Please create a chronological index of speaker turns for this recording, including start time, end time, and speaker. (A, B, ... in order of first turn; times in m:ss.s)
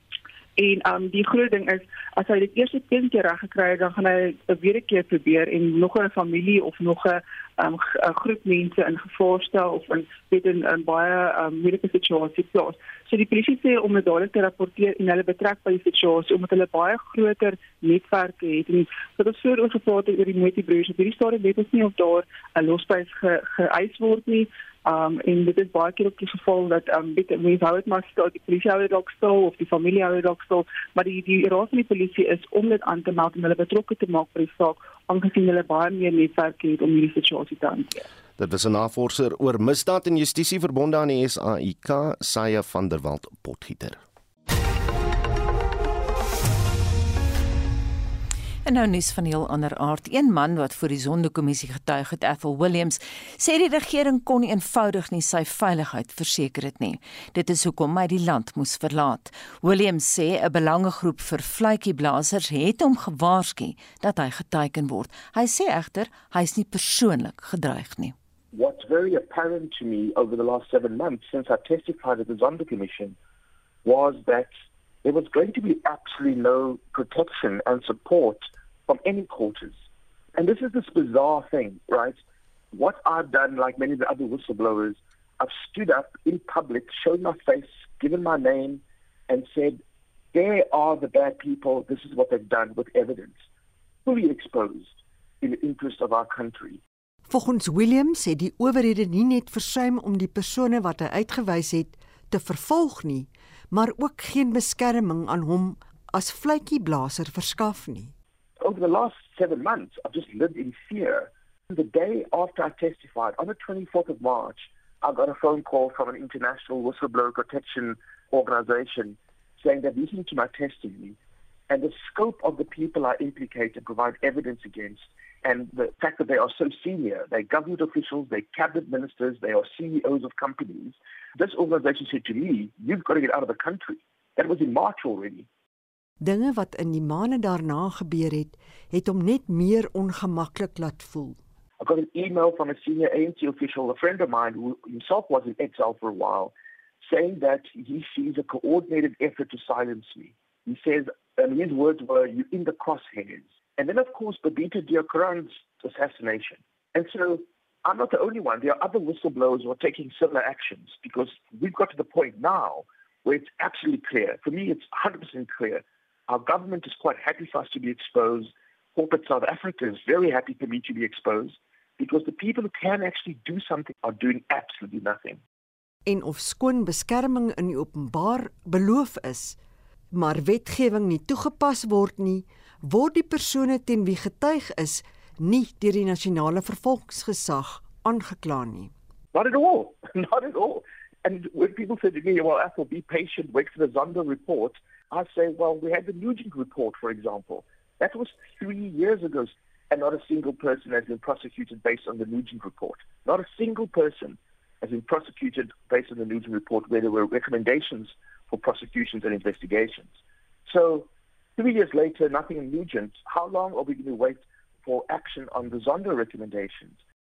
0:00.6-0:38.1 A
0:38.4-0:44.0 B
0:48.6-1:08.1 C
1:08.5-1:13.2 D
1:13.8-1:14.5 D
1:15.0-1:19.8 D
1:20.4-1:22.2 D
1:22.7-1:29.8 D
1:30.3-1:33.4 D
1:34.1-1:36.8 D
1:37.3-1:48.1 E
1:48.6-2:01.2 D
2:01.7-2:15.5 D
2:16.2-2:21.4 E
2:21.8-2:55.4 D
2:56.1-2:59.6 E
3:00.1-3:08.9 E
3:09.3-3:30.1 D
3:30.6-3:37.0 D